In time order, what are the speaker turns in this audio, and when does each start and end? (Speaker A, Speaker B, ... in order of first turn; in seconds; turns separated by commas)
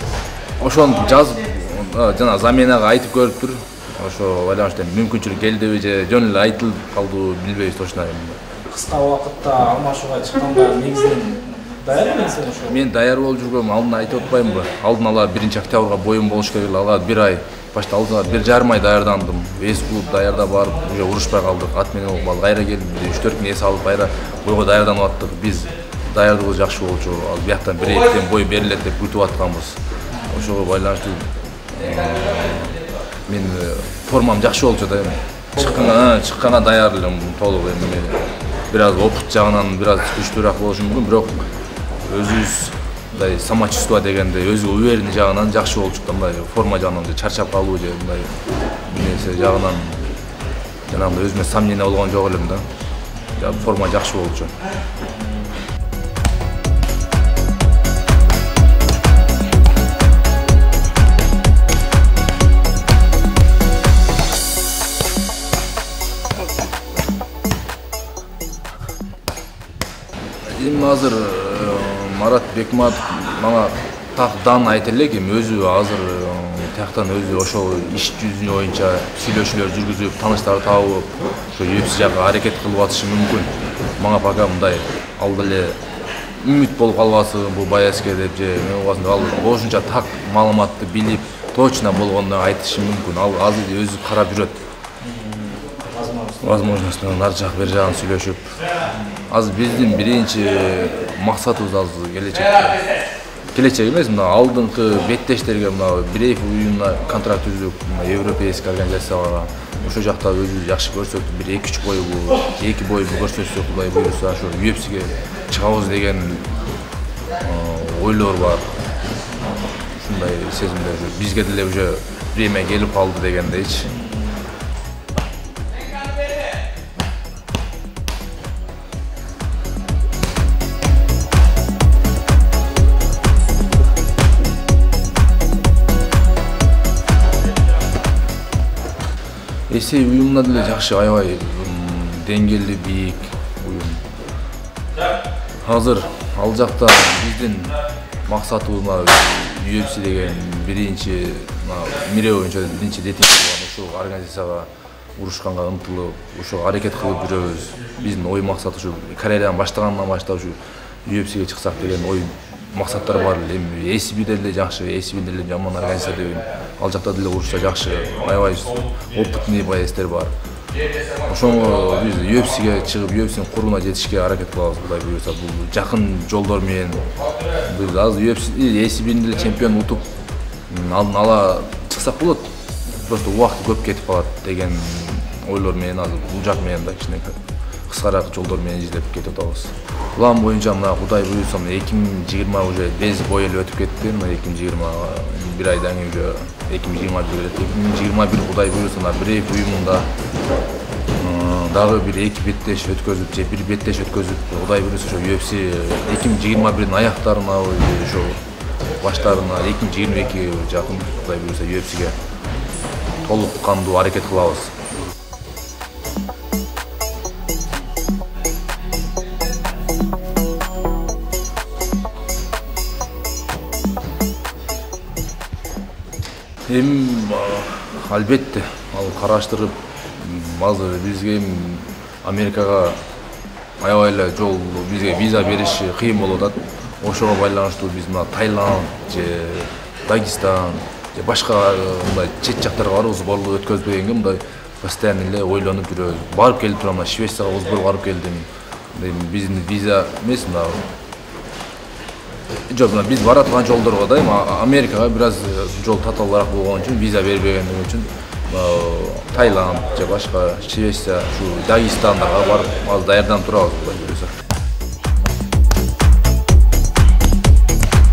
Speaker A: 0.6-8.4, Speaker B: 8.7-12.8, Speaker A: 12.7-41.5, Speaker A: 42.0-50.1, Speaker A: 50.9-52.6, Speaker B: 53.1-53.7, Speaker A: 53.4-54.5, Speaker B: 55.0-55.6, Speaker A: 70.5-85.8, Speaker A: 86.4-94.7, Speaker B: 95.0-96.8, Speaker A: 96.4-98.5, Speaker A: 99.3-102.8, Speaker A: 103.5-116.6, Speaker A: 117.4-118.8, Speaker A: 119.8-123.9, Speaker B: 123.9-124.4, Speaker A: 139.7-144.0, Speaker A: 145.6-170.3, Speaker A: 171.2-177.0, Speaker A: 177.6-180.1, Speaker A: 180.7-182.5, Speaker A: 183.0-187.4, Speaker A: 187.9-200.1, Speaker A: 201.2-208.4, Speaker A: 209.0-212.2, Speaker A: 213.2-214.8, Speaker A: 226.7-233.0, Speaker A: 233.8-250.9, Speaker A: 252.7-264.4